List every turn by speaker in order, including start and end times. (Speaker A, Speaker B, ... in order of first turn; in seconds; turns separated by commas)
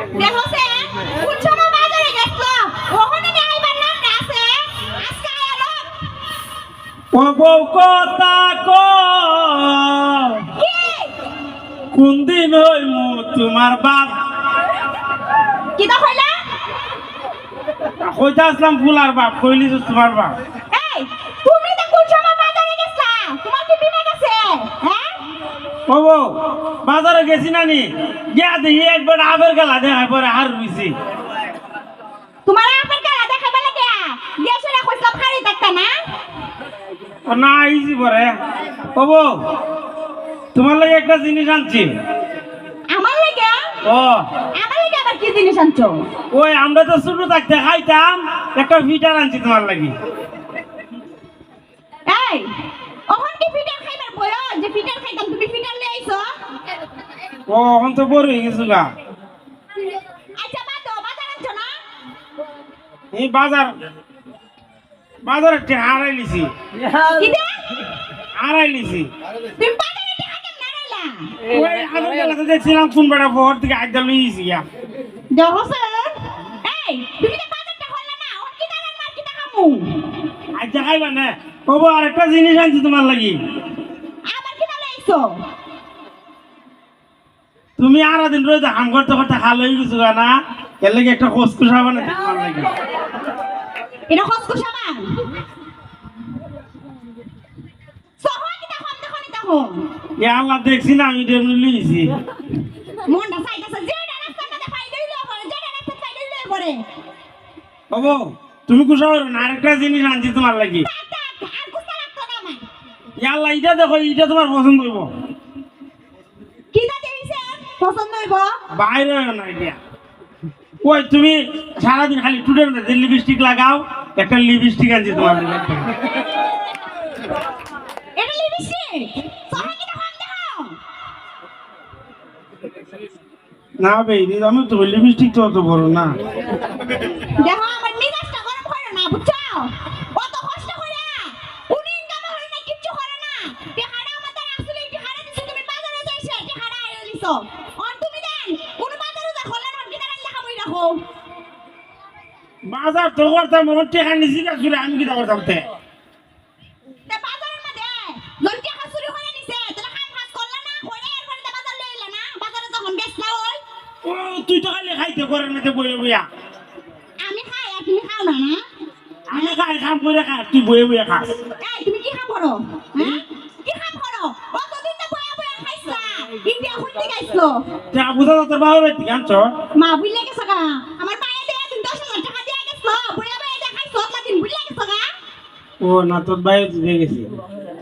Speaker A: 0.2-5.9, Speaker B: 7.1-10.5, Speaker A: 10.6-11.1, Speaker B: 11.9-14.1, Speaker A: 15.8-16.4, Speaker B: 18.0-20.3, Speaker A: 20.7-25.1, Speaker B: 25.9-30.9, Speaker A: 32.5-35.9, Speaker B: 37.3-38.3, Speaker B: 39.0-39.4, Speaker B: 40.5-41.9, Speaker A: 42.9-43.6, Speaker B: 43.8-44.2, Speaker A: 44.6-46.0, Speaker B: 46.3-49.9, Speaker A: 52.1-52.5, Speaker A: 53.1-56.3, Speaker B: 57.5-58.9, Speaker A: 60.4-61.7, Speaker B: 63.1-63.7, Speaker B: 65.2-66.5, Speaker A: 67.0-67.6, Speaker B: 68.4-69.1, Speaker A: 69.6-71.3, Speaker B: 71.5-74.7, Speaker A: 75.3-80.1, Speaker B: 80.6-83.4, Speaker A: 84.3-85.4, Speaker B: 87.8-92.7, Speaker A: 94.1-95.2, Speaker A: 98.2-99.8, Speaker B: 100.2-102.1, Speaker A: 103.1-106.8, Speaker B: 107.9-110.9, Speaker A: 110.8-112.7, Speaker B: 113.2-115.1, Speaker A: 116.7-118.5, Speaker B: 118.7-119.8, Speaker B: 120.8-125.9, Speaker A: 128.2-130.8, Speaker B: 133.8-136.2, Speaker A: 137.3-151.0, Speaker B: 152.7-155.7, Speaker A: 157.1-163.6, Speaker B: 164.0-166.3, Speaker A: 167.2-168.6, Speaker B: 169.3-171.4, Speaker A: 171.6-177.6, Speaker B: 177.9-179.5, Speaker A: 179.8-185.1, Speaker B: 185.8-187.3